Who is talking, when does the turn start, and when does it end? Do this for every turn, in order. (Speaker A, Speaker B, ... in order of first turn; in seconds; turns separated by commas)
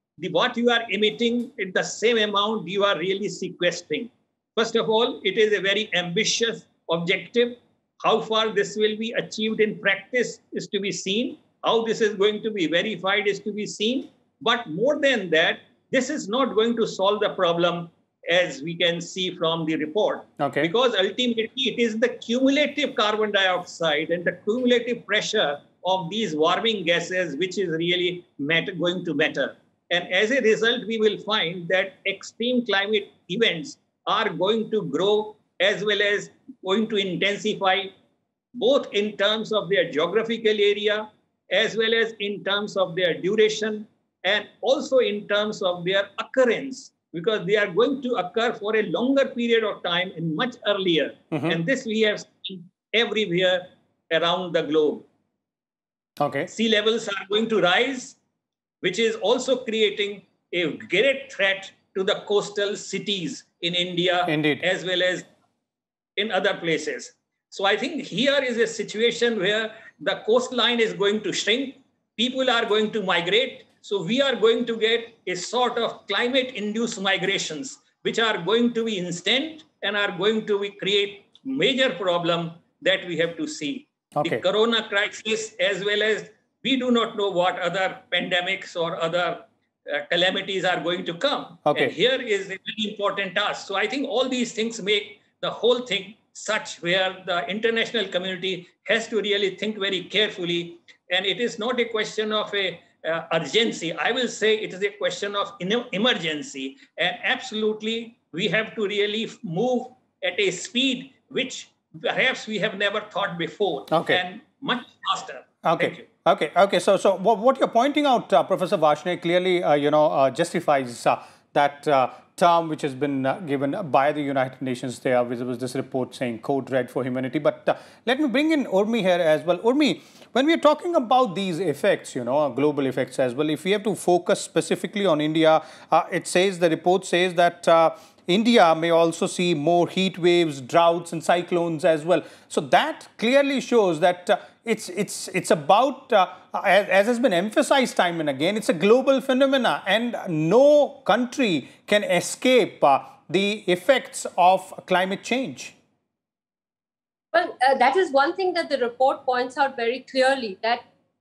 Speaker A: 0.2-37.9, Speaker B: 20.4-20.7, Speaker A: 38.5-55.1, Speaker B: 51.3-51.6, Speaker B: 56.2-56.5, Speaker A: 56.5-58.2, Speaker A: 58.8-65.3, Speaker B: 64.3-64.6, Speaker A: 66.2-116.0, Speaker B: 84.2-84.4, Speaker B: 91.7-91.9, Speaker B: 113.9-114.2, Speaker B: 115.6-155.7, Speaker C: 157.3-160.8